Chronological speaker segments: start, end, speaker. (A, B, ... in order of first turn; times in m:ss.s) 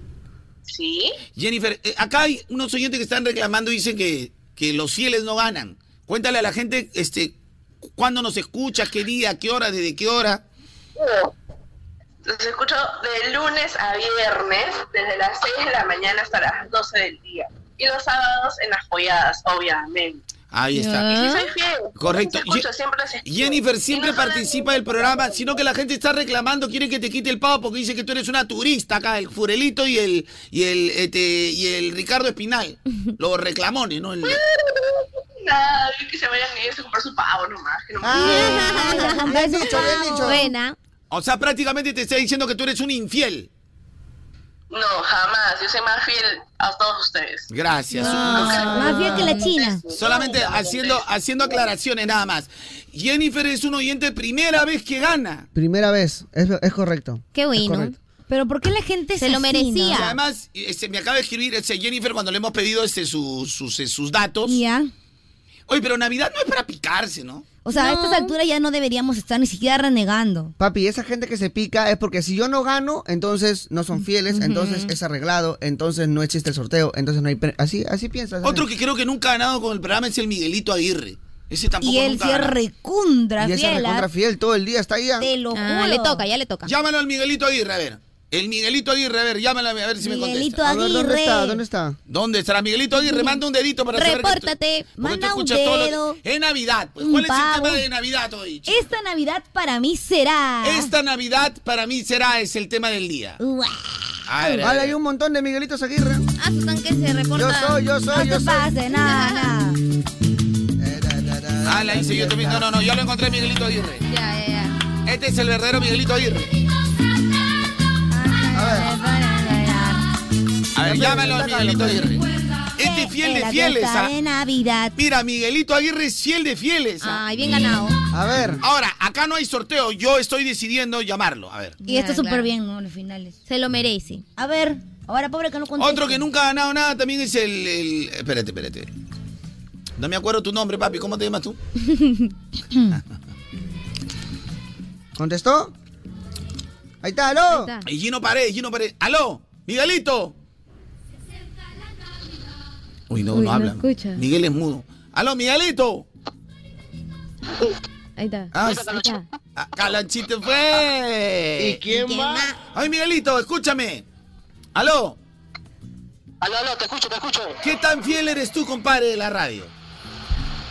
0:00.7-0:01.2 A
0:01.4-0:07.3 B
0:08.0-0:10.4 B
0:11.0-0:11.3 A
0:12.2-0:20.2 A
0:20.5-0:21.1 B
0:20.7-0:21.5 C
0:21.1-0:25.4 A
0:22.0-0:22.6 B
0:23.2-0:34.4 B
0:34.2-0:38.8 A
0:38.0-0:40.5 D
0:38.2-0:40.4 E
0:38.2-0:39.4 C
0:39.9-0:40.8 C
0:41.1-0:43.5 B
0:44.7-0:47.4 A
0:47.5-0:48.7 B
0:48.0-0:48.6 C
0:48.0-0:49.0 D
0:48.2-0:49.8 E
0:48.3-0:51.0 A
0:49.1-0:49.5 C
0:49.9-0:55.5 B
0:55.5-0:57.9 D
0:57.3-0:57.9 C
0:58.3-1:00.2 E
0:59.2-1:00.1 C
0:59.9-1:04.6 B
1:04.4-1:04.9 E
1:05.7-1:07.5 B
1:07.6-1:10.5 E
1:07.7-1:08.3 C
1:10.6-1:18.6 D
1:14.3-1:14.9 C
1:18.4-1:22.6 B
1:21.8-1:24.1 E
1:23.4-1:25.3 D
1:25.2-1:26.2 E
1:25.5-1:26.7 C
1:26.6-1:30.6 B
1:30.0-1:31.6 E
1:30.6-1:32.0 D
1:32.1-1:38.8 B
1:33.0-1:33.4 C
1:33.9-1:34.9 C
1:35.0-1:36.2 E
1:37.0-1:37.8 E
1:38.7-1:40.9 E
1:40.6-1:43.4 B
1:43.4-1:44.2 E
1:44.3-1:45.0 B
1:44.6-1:46.2 D
1:46.4-1:47.8 C
1:47.3-1:48.7 D
1:48.1-1:49.8 E
1:48.9-1:49.5 C
1:50.8-1:52.7 D
1:51.6-1:54.0 B
1:54.1-1:54.8 C
1:55.0-1:56.5 B
1:58.1-2:00.0 E
1:58.5-1:58.9 D
2:00.7-2:02.2 B
2:00.8-2:02.2 D
2:02.8-2:04.1 B
2:02.8-2:04.9 E
2:05.0-2:07.2 B
2:07.0-2:08.0 C
2:08.1-2:08.6 D
2:08.6-2:11.8 B
2:11.8-2:12.5 C
2:11.8-2:13.3 E
2:13.4-2:14.2 C
2:14.4-2:16.2 E
2:15.8-2:18.9 B
2:20.0-2:21.6 B
2:21.8-2:22.3 C
2:25.1-2:25.7 D
2:27.0-2:27.7 D
2:27.5-2:27.8 C
2:27.8-2:30.3 B
2:33.1-2:36.1 B
2:33.3-2:34.2 C
2:38.2-2:39.2 C
2:38.5-2:39.0 B
2:38.6-2:39.3 F
2:39.6-2:41.8 B
2:41.6-2:42.5 D
2:41.9-2:42.5 C
2:42.7-2:44.0 B
2:44.7-2:45.2 B
2:46.4-2:47.6 F
2:47.6-2:49.7 B